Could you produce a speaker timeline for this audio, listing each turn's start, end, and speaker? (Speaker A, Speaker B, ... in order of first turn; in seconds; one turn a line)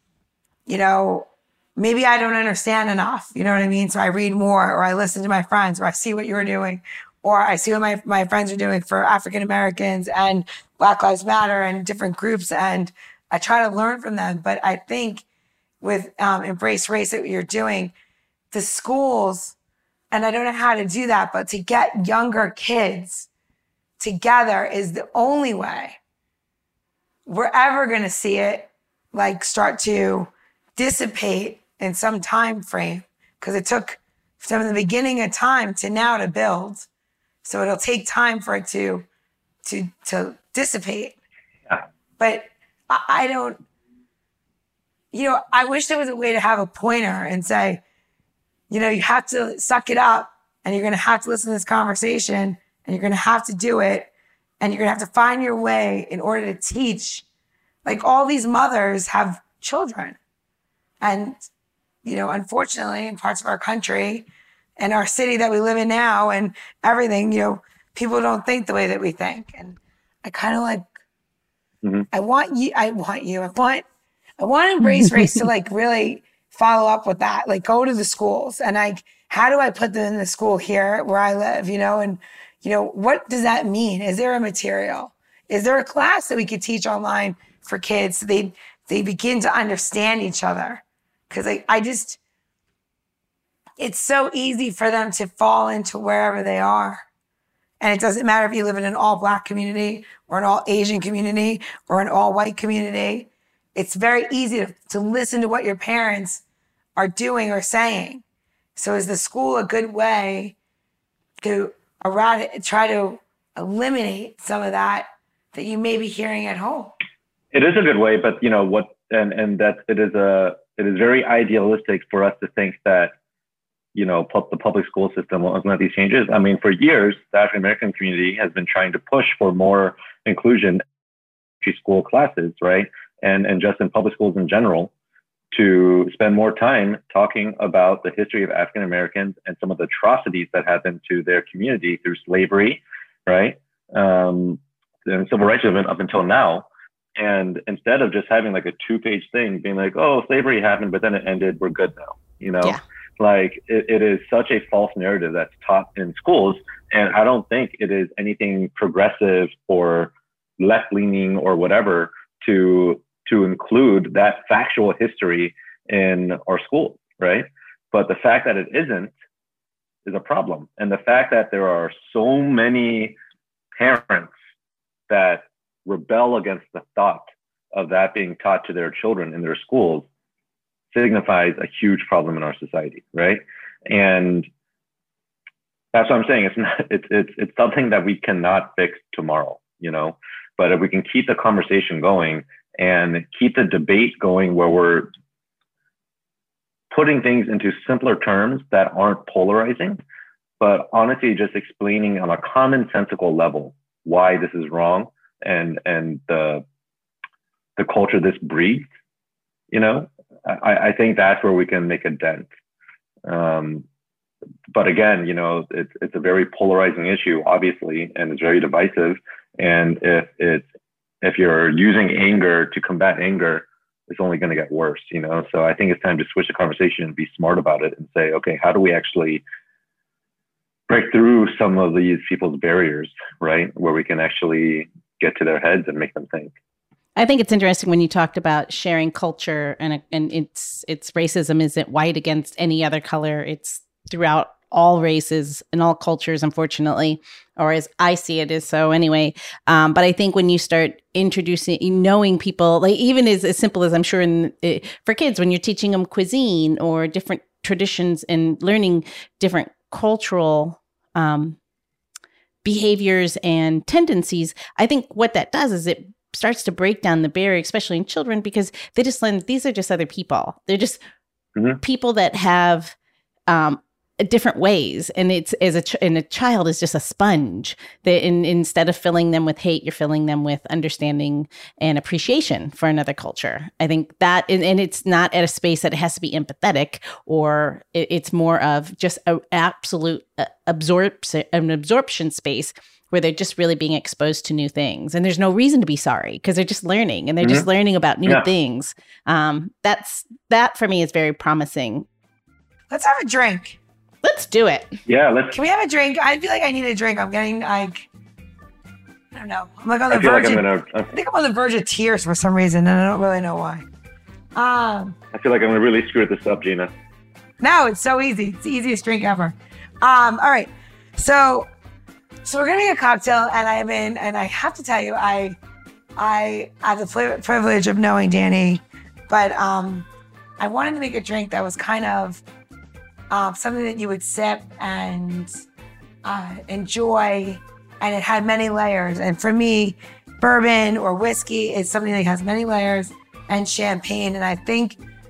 Speaker A: 0.7-15.2
Speaker A: 15.8-17.9
Speaker A: 18.5-19.6
Speaker A: 20.1-23.3
Speaker A: 24.0-26.0
Speaker A: 27.3-36.9
Speaker A: 37.4-39.1
Speaker A: 39.6-41.2
Speaker A: 42.2-43.6
Speaker A: 45.1-47.8
Speaker A: 48.7-57.2
Speaker A: 57.9-60.2
Speaker A: 61.0-61.5
Speaker A: 62.0-70.9
Speaker A: 72.1-73.8
Speaker A: 74.4-92.2
Speaker A: 93.8-97.0
Speaker A: 97.8-106.4
Speaker A: 107.0-108.2
Speaker A: 108.8-110.5
Speaker A: 111.4-116.9
Speaker B: 117.5-123.1
Speaker B: 124.0-130.8
Speaker B: 131.6-134.9
Speaker B: 135.5-169.1
Speaker B: 170.1-173.2
Speaker B: 173.8-174.3
Speaker B: 175.1-180.1
Speaker B: 180.9-184.5
Speaker B: 185.9-195.1
Speaker B: 196.9-200.0
Speaker B: 200.6-206.6
Speaker B: 207.8-208.9
Speaker B: 209.7-212.5
Speaker B: 213.3-213.9
Speaker B: 214.7-220.7
Speaker B: 221.2-229.4
Speaker B: 230.9-236.5
Speaker C: 237.2-261.6
Speaker C: 262.6-271.0
Speaker B: 271.6-271.8
Speaker C: 271.8-272.9
Speaker C: 273.5-302.1
Speaker A: 302.9-303.8
Speaker C: 304.2-305.0
Speaker B: 305.1-305.6
Speaker A: 305.5-308.1
Speaker A: 309.3-313.9
Speaker B: 310.1-311.1
Speaker A: 314.6-315.2
Speaker B: 315.3-316.9
Speaker A: 317.6-321.7
Speaker A: 322.4-325.6
Speaker A: 326.2-330.1
Speaker A: 330.6-332.4
Speaker A: 333.3-335.5
Speaker A: 336.2-345.0